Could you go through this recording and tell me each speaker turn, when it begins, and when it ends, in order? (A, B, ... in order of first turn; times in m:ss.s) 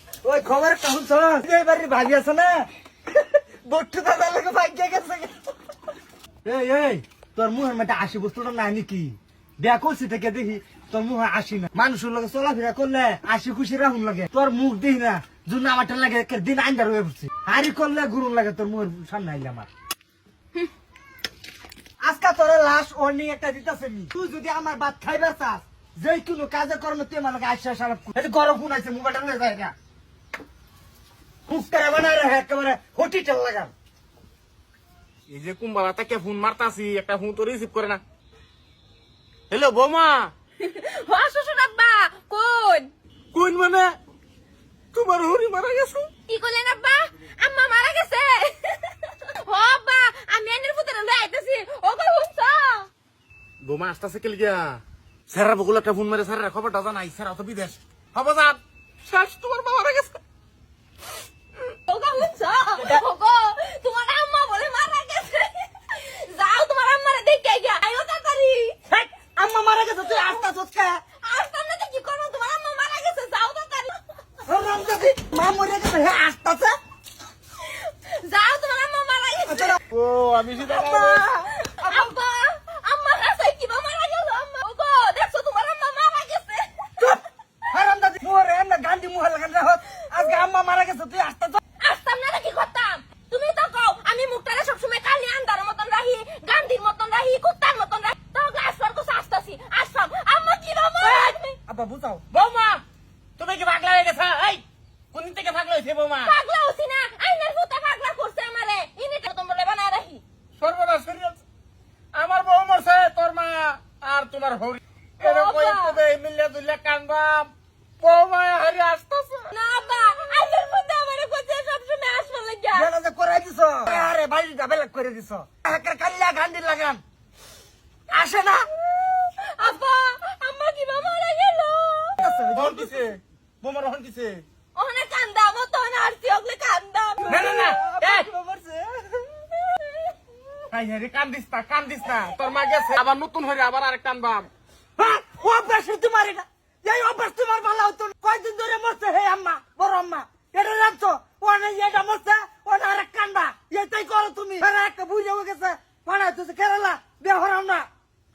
0:00.2-0:02.7 A
0:03.6-0:05.4 A
0:06.4-0:19.7 A
0:22.0-0:29.7 A
0:31.5-0:33.7 A
0:35.3-0:38.0 B
0:39.5-0:40.3 B
0:40.6-0:42.9 C
0:43.3-0:44.0 B
0:44.9-0:46.1 B
0:46.3-0:52.9 C
0:53.6-1:00.2 B
1:01.9-1:08.8 C
1:08.9-1:11.0 A
1:10.1-1:10.4 C
1:11.2-1:14.0 C
1:14.5-1:16.8 A
1:17.7-1:19.8 C
1:19.5-1:19.8 A
1:19.9-1:21.2 B
1:20.6-1:26.9 C
1:21.8-1:22.1 A
1:27.0-1:31.6 A
1:31.8-1:41.6 C
1:41.0-1:42.2 A
1:42.3-1:42.8 B
1:43.4-1:46.3 B
1:46.2-1:50.2 C
1:50.6-1:51.4 B
1:52.1-1:59.5 B
1:55.2-1:56.0 C
1:59.5-2:02.9 C
2:02.7-2:07.0 A
2:08.1-2:08.7 A
2:09.4-2:12.2 C
2:12.2-2:12.9 A
2:12.5-2:14.4 B
2:14.8-2:17.4 C
2:17.2-2:19.5 A
2:17.3-2:18.3 B
2:20.7-2:24.5 B
2:25.0-2:37.9 A